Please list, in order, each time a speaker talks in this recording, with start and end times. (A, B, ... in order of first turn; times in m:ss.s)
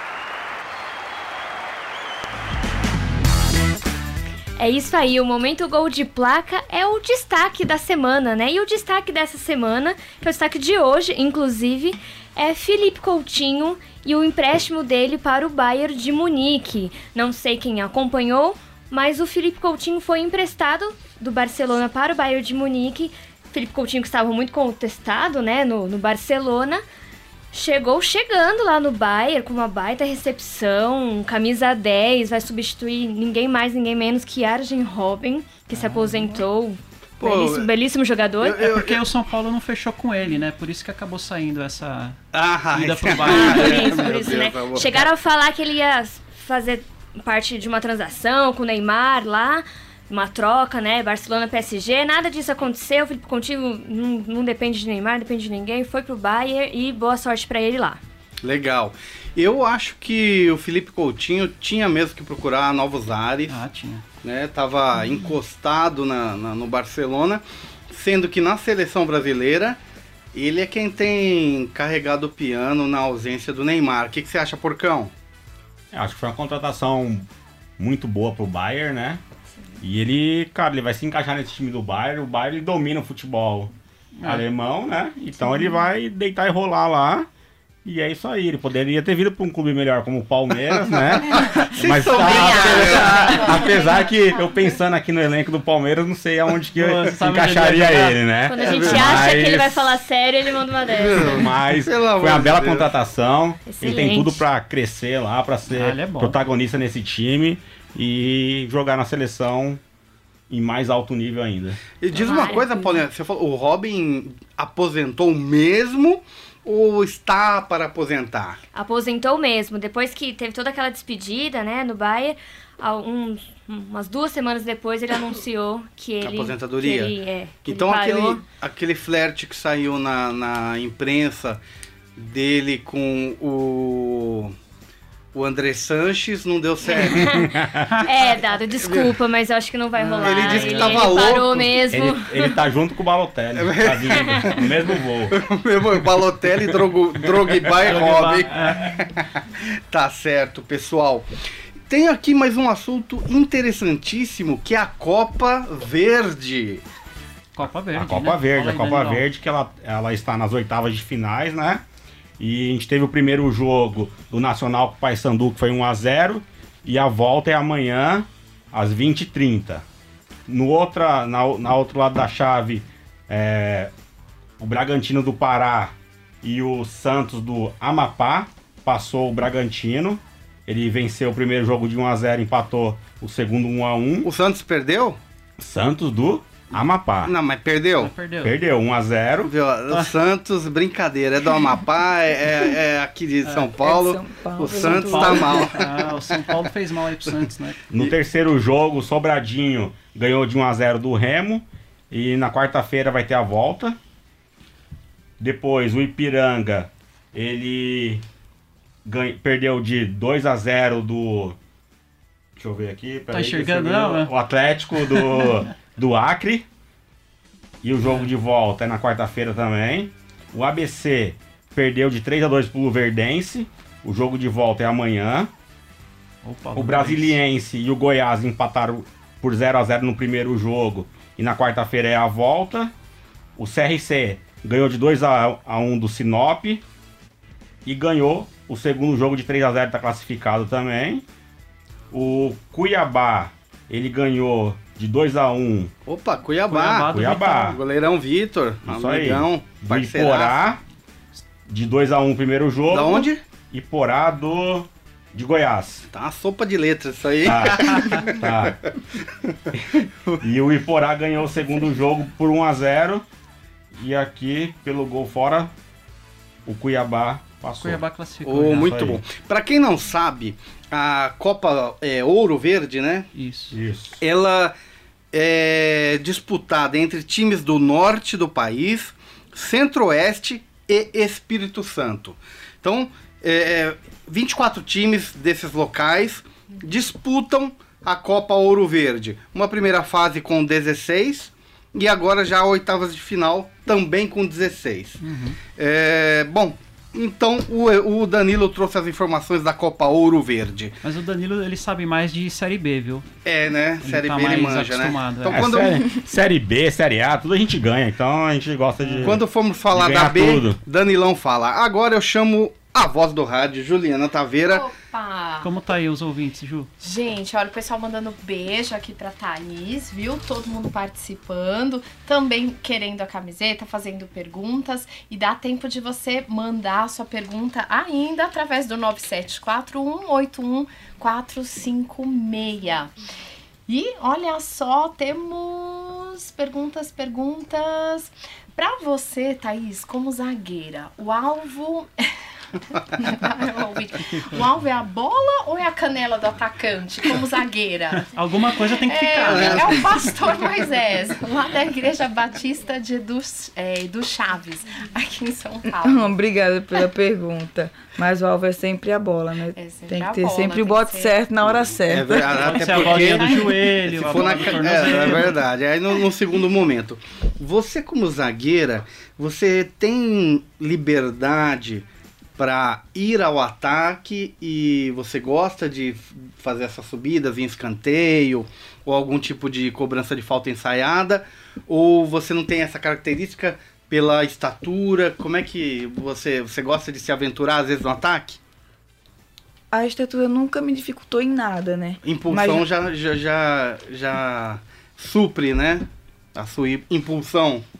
0:04.6-0:26.8 A
0:27.5-0:38.7 A
0:35.7-0:36.4 B
0:37.2-0:37.7 C
0:38.4-0:39.0 C
0:38.6-0:44.4 B
0:42.3-0:44.9 C
0:43.2-0:58.0 A
0:58.4-1:03.6 C
1:03.5-1:04.0 B
1:04.2-1:09.8 C
1:10.3-1:15.1 C
1:15.9-1:17.2 D
1:17.8-1:19.2 D
1:19.8-1:23.7 D
1:24.2-1:24.4 B
1:24.2-1:27.3 D
1:27.8-1:40.0 D
1:31.1-1:33.6 C
1:32.2-1:33.6 A
1:33.1-1:33.7 E
1:36.8-1:38.2 B
1:38.5-1:41.4 A
1:38.6-1:39.3 C
1:41.0-1:42.9 C
1:41.2-1:49.8 D
1:43.6-1:44.4 A
1:45.7-1:46.4 B
1:50.5-1:51.8 D
1:52.0-1:58.6 C
1:52.1-1:53.0 A
1:58.7-2:08.4 A
2:06.2-2:11.6 C
2:12.2-2:14.5 C
2:15.3-2:17.5 C
2:17.0-2:17.5 A
2:17.3-2:17.9 D
2:18.0-2:22.6 A
2:18.8-2:19.2 C
2:20.0-2:21.8 C
2:20.2-2:21.3 B
2:21.9-2:25.4 D
2:23.6-2:24.8 C
2:25.3-2:29.2 C
2:27.3-2:27.7 D
2:27.8-2:29.0 B
2:29.9-2:31.3 C
2:31.9-2:36.8 C
2:37.5-2:39.3 B
2:37.9-2:41.8 D
2:42.4-2:49.8 D
2:50.5-2:53.9 D
2:54.6-3:04.3 D
3:04.2-3:05.2 C
3:05.6-3:07.3 D
3:07.2-3:08.1 C
3:08.0-3:08.5 B
3:08.4-3:09.5 D
3:09.4-3:16.5 C
3:09.9-3:10.1 B
3:13.4-3:13.7 B
3:13.8-3:15.8 F
3:14.7-3:17.8 B
3:17.9-3:24.0 D
3:25.4-3:28.2 D
3:29.0-3:31.6 D
3:32.6-3:36.6 D
3:33.3-3:34.3 B
3:35.0-3:35.6 B
3:37.8-3:45.5 D
3:38.0-3:38.3 B
3:46.4-3:47.4 B
3:46.8-3:52.9 D
3:53.6-3:56.8 D
3:57.8-4:01.2 D
4:02.1-4:05.9 D
4:06.0-4:10.6 C
4:06.7-4:07.7 B
4:07.1-4:07.8 D
4:08.8-4:10.8 D
4:11.7-4:16.1 D
4:12.9-4:13.4 C
4:16.1-4:18.6 C
4:17.4-4:18.8 D
4:19.7-4:23.2 D
4:24.0-4:25.7 D
4:26.6-4:28.0 D
4:27.8-4:28.9 B
4:28.4-4:33.3 C
4:28.7-4:29.2 D
4:33.3-4:33.8 B
4:33.7-4:34.2 D
4:34.2-4:34.7 C
4:35.3-4:55.2 C
4:55.2-4:55.6 B
4:55.8-5:00.9 C
5:01.0-5:03.2 B
5:03.4-5:06.1 C
5:04.0-5:05.7 B
5:05.5-5:10.8 D
5:09.0-5:09.4 B
5:09.2-5:14.9 C
5:14.6-5:15.7 E
5:15.6-5:16.9 B
5:17.0-5:33.1 E
5:33.9-5:42.2 E
5:43.1-5:48.3 E
5:44.3-5:44.6 B
5:48.2-5:50.2 B
5:49.0-5:56.3 E
5:49.4-5:50.2 C
5:55.8-6:02.6 F
5:59.7-6:01.4 E
6:02.1-6:12.0 C
6:02.4-6:05.6 B
6:03.2-6:03.7 E
6:04.3-6:04.6 E
6:12.6-6:28.6 C
6:29.9-6:32.8 F
6:32.2-6:37.8 C